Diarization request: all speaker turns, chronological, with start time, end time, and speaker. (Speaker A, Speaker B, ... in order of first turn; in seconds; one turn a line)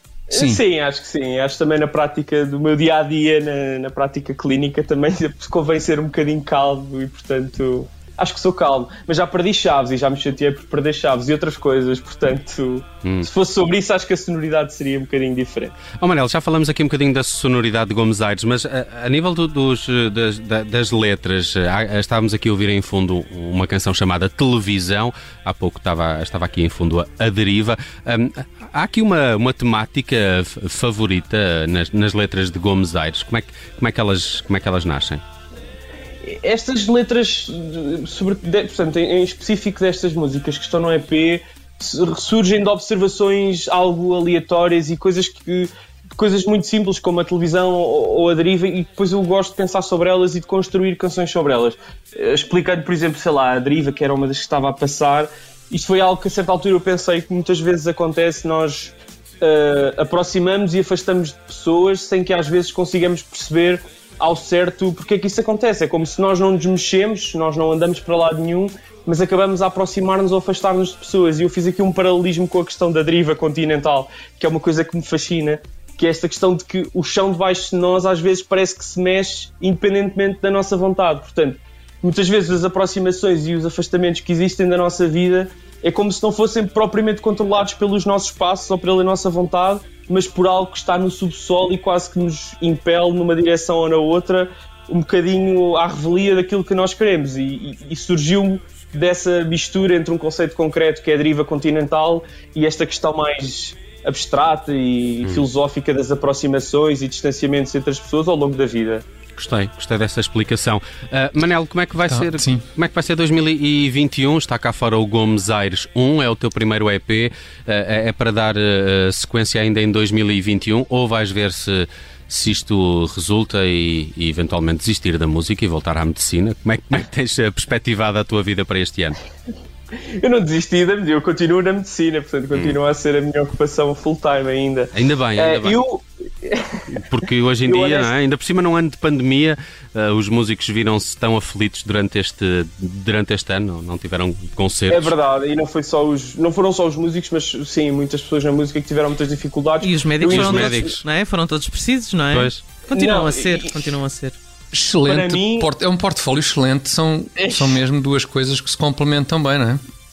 Speaker A: 0.3-15.8
Speaker B: 0.3-0.6
Speaker C: 16.0-35.2
Speaker A: 36.2-109.0
Speaker C: 109.4-129.2
Speaker B: 112.1-112.7
Speaker A: 130.2-136.8
Speaker C: 134.9-135.8
Speaker C: 136.9-145.1
Speaker A: 137.6-138.2
Speaker A: 144.9-151.0
Speaker D: 149.8-154.4
Speaker C: 150.2-151.0
Speaker C: 152.3-152.7
Speaker A: 152.9-153.9
Speaker B: 154.7-159.8
Speaker A: 155.1-155.7
Speaker A: 157.4-157.8